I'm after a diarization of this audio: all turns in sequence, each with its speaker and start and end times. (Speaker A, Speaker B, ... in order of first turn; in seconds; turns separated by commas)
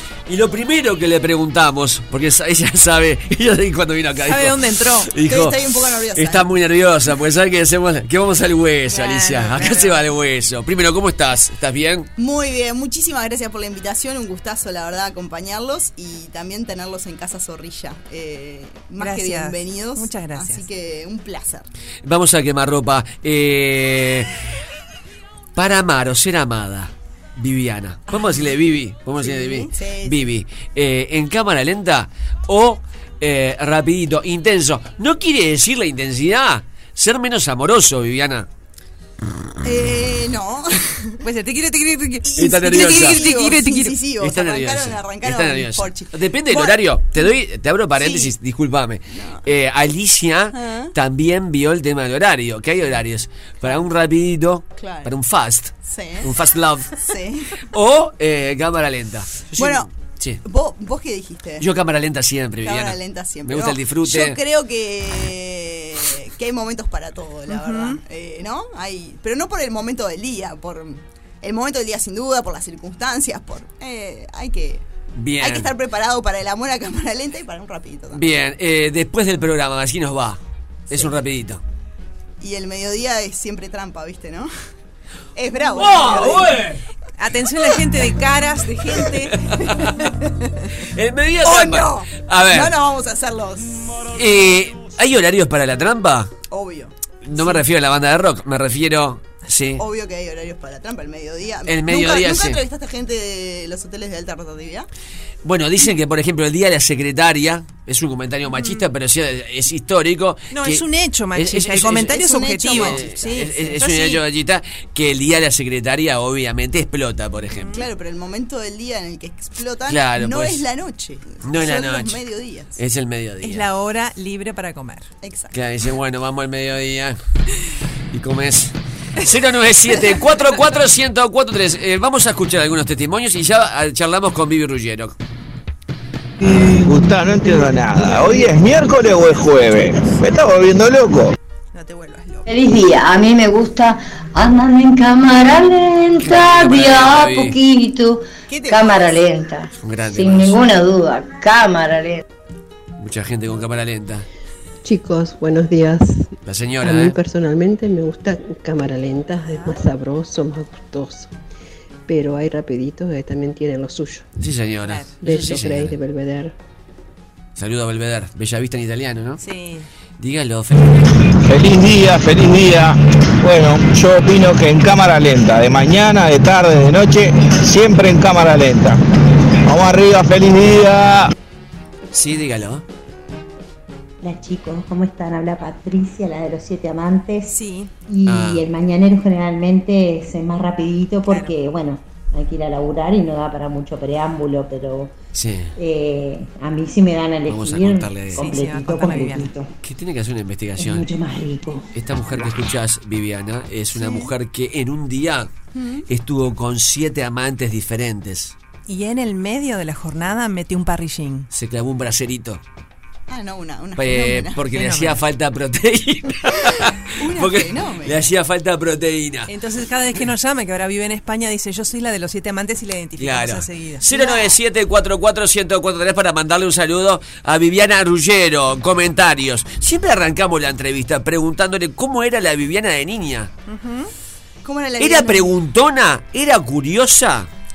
Speaker A: 0.3-12.1, Speaker B: 4.2-5.1, Speaker C: 5.2-6.5, Speaker B: 8.9-10.0, Speaker C: 12.2-21.7, Speaker B: 19.0-20.6, Speaker A: 22.0-24.3, Speaker A: 25.6-38.5, Speaker C: 28.1-28.5, Speaker C: 29.2-30.3, Speaker C: 39.6-41.1, Speaker B: 41.2-44.0, Speaker C: 42.2-47.3, Speaker A: 42.4-43.2, Speaker A: 44.2-57.0, Speaker C: 48.0-48.3, Speaker C: 49.1-49.5, Speaker C: 50.5-50.9, Speaker C: 54.8-55.1, Speaker C: 55.8-56.3, Speaker C: 57.0-57.6, Speaker A: 57.6-60.4, Speaker C: 59.6-59.9, Speaker C: 60.4-61.6, Speaker A: 61.6-64.4, Speaker C: 62.6-74.8, Speaker B: 67.5-68.0, Speaker A: 75.2-75.7, Speaker C: 75.4-78.2, Speaker A: 78.1-81.6, Speaker C: 80.9-81.2, Speaker C: 82.4-84.5, Speaker C: 85.3-86.6, Speaker A: 85.6-86.8, Speaker B: 87.2-89.4, Speaker A: 89.5-89.8, Speaker A: 90.9-92.7, Speaker C: 91.4-94.0, Speaker A: 94.1-96.3, Speaker C: 96.5-97.6, Speaker A: 97.2-99.8, Speaker C: 99.8-104.9, Speaker A: 101.7-102.6, Speaker A: 105.4-117.8, Speaker B: 108.5-108.8, Speaker B: 110.5-114.2, Speaker C: 112.0-113.2, Speaker C: 117.7-122.8, Speaker A: 119.9-120.6, Speaker A: 121.4-122.2, Speaker A: 122.8-123.7, Speaker B: 123.4-125.1, Speaker C: 125.2-125.5, Speaker A: 125.5-127.2, Speaker A: 128.1-135.1, Speaker D: 136.5-141.3, Speaker B: 141.7-142.4, Speaker E: 142.4-152.2, Speaker A: 146.2-147.6, Speaker C: 148.5-149.1, Speaker A: 149.8-150.6, Speaker A: 153.0-154.3, Speaker F: 154.8-161.3, Speaker A: 156.4-157.2, Speaker F: 162.1-164.2, Speaker A: 164.4-165.9, Speaker B: 164.8-165.2, Speaker F: 165.2-166.5, Speaker A: 167.6-169.4, Speaker B: 169.4-169.9, Speaker A: 170.2-171.0, Speaker D: 171.3-179.0, Speaker D: 179.7-181.3, Speaker A: 182.1-182.8, Speaker G: 184.2-187.5, Speaker B: 187.5-187.9, Speaker G: 188.1-195.1, Speaker A: 188.2-188.7, Speaker B: 191.3-191.6, Speaker A: 195.3-195.7, Speaker G: 195.8-199.7, Speaker A: 197.5-198.6, Speaker B: 198.3-199.5, Speaker A: 199.8-201.1, Speaker G: 200.8-201.9, Speaker A: 201.9-205.5, Speaker C: 205.7-206.0, Speaker A: 206.1-208.5, Speaker B: 208.9-211.5, Speaker A: 211.5-212.6, Speaker C: 213.3-214.7, Speaker A: 214.0-219.5, Speaker B: 214.7-215.2, Speaker C: 217.1-218.2, Speaker B: 219.5-224.1, Speaker A: 223.2-233.5, Speaker C: 224.2-224.4, Speaker B: 233.7-234.1, Speaker C: 234.6-235.5, Speaker A: 235.0-237.5